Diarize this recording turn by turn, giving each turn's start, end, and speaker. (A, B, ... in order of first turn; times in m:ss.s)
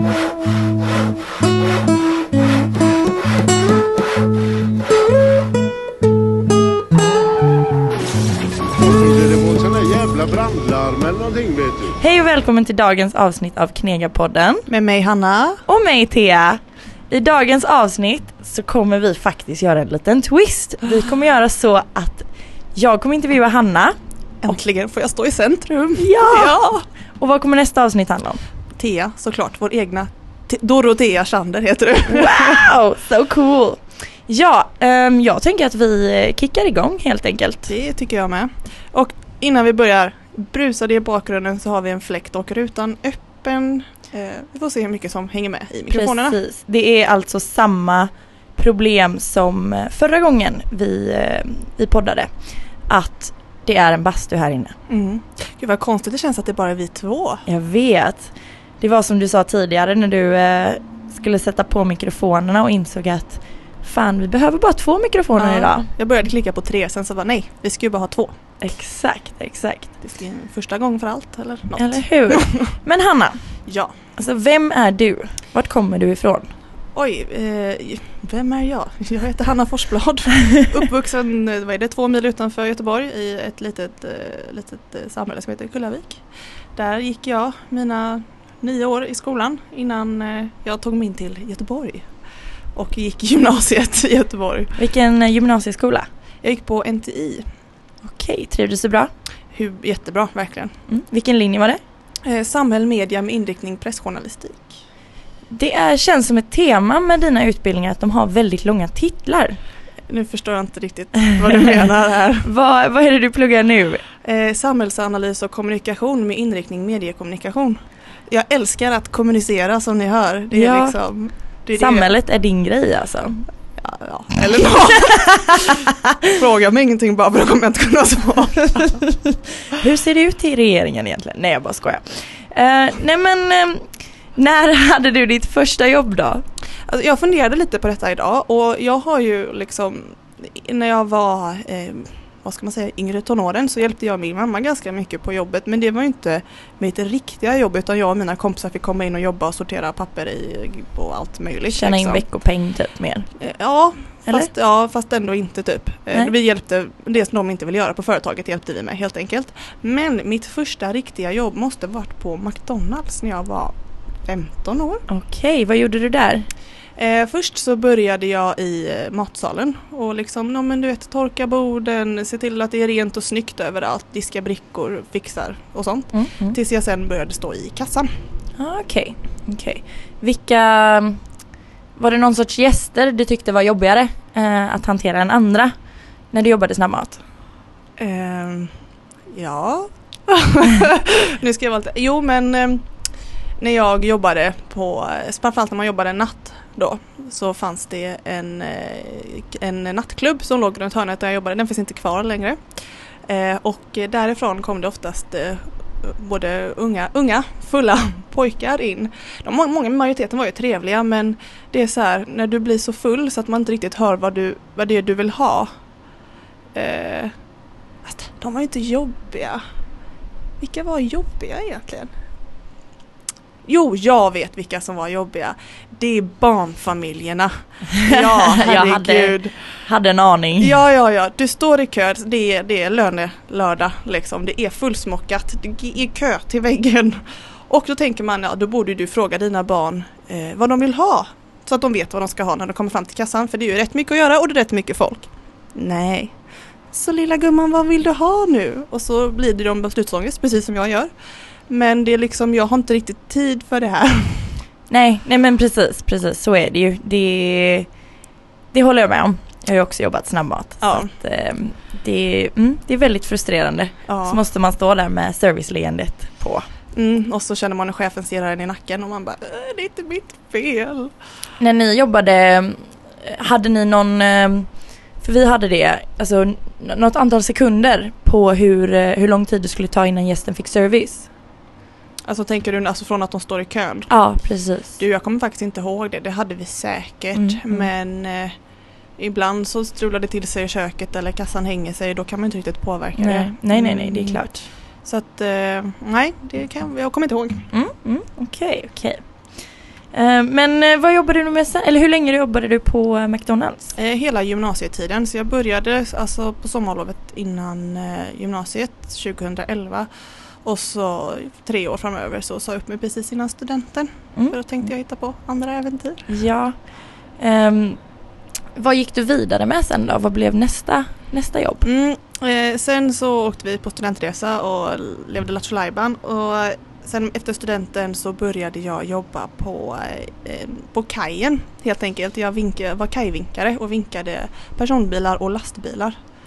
0:08.7-0:12.0 A
0:12.0-0:14.7 B
0:14.7-0:15.6 C
0:15.7-0:24.0 B
0:24.4-0:26.8 C
0:26.0-0:28.4 B
0:28.7-0:32.6 C
0:32.1-0:37.7 B
0:37.7-0:46.4 C
0:45.9-0:54.8 B
0:54.9-0:57.4 C
0:57.4-1:05.9 B
1:05.4-1:08.3 C
1:08.6-1:09.9 B
1:10.0-1:12.7 C
1:11.8-1:16.5 B
1:13.6-1:13.9 C
1:16.9-1:32.2 C
1:32.7-1:34.8 C
1:34.8-1:36.1 B
1:36.4-1:37.5 C
1:38.0-1:39.1 B
1:39.5-1:40.8 C
1:40.9-1:41.8 B
1:42.2-1:44.8 C
1:45.5-1:49.6 B
1:50.1-1:52.5 C
1:52.4-1:54.0 B
1:54.2-2:02.1 C
2:00.5-2:03.5 B
2:03.8-2:05.6 C
2:05.4-2:05.7 B
2:06.2-2:09.0 C
2:08.7-2:16.4 B
2:16.9-2:32.2 C
2:31.7-2:33.3 B
2:33.4-2:45.0 C
2:45.1-2:46.5 B
2:47.0-2:58.1 C
2:56.1-2:56.6 B
2:58.6-3:01.4 B
3:01.9-3:07.2 B
3:08.0-3:08.8 C
3:09.3-3:12.9 C
3:13.6-3:35.7 C
3:36.7-3:37.3 C
3:38.0-3:39.6 C
3:40.6-3:42.1 C
3:43.6-3:49.9 C
3:48.0-3:50.8 B
3:50.6-4:11.1 C
4:11.7-4:14.6 C
4:14.9-4:18.1 B
4:18.7-4:26.6 B
4:20.8-4:21.1 C
4:24.0-4:24.4 C
4:26.9-4:31.1 C
4:31.6-4:41.3 B
4:42.2-4:57.7 C
4:44.1-4:45.0 B
4:47.3-4:47.9 B
4:53.2-4:54.7 B
4:57.7-5:03.9 B
5:03.9-5:16.3 C
5:14.3-5:14.9 B
5:16.3-5:21.8 B
5:21.8-5:36.2 C